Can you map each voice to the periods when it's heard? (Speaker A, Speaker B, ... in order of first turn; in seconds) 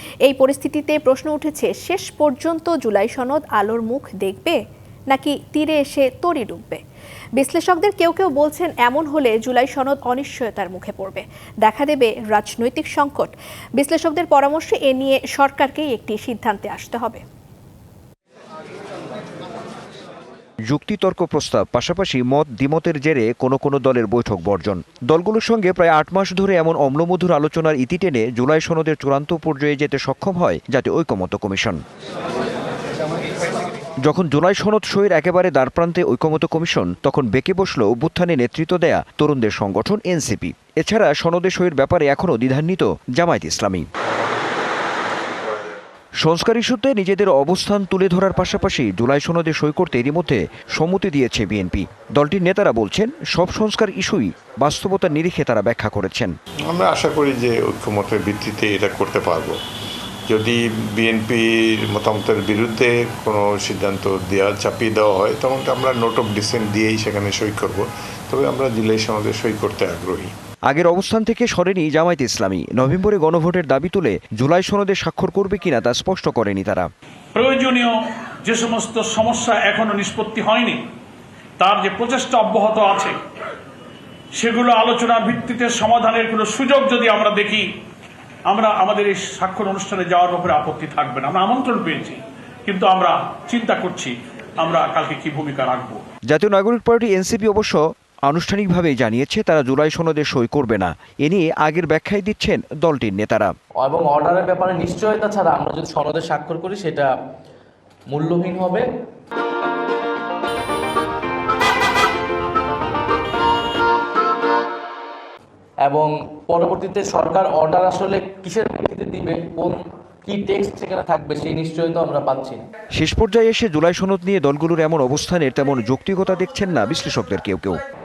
Speaker A: 0.3-6.8, 7.4-17.2
Speaker B: 20.7-31.8, 34.0-43.9, 46.2-56.3, 70.7-76.9, 96.3-103.5, 123.0-127.8
Speaker C: 56.7-59.6, 60.3-70.3
Speaker D: 77.3-80.8, 81.6-83.2, 84.3-87.7, 88.5-96.0
Speaker E: 103.8-107.1, 108.1-108.9, 115.8-122.6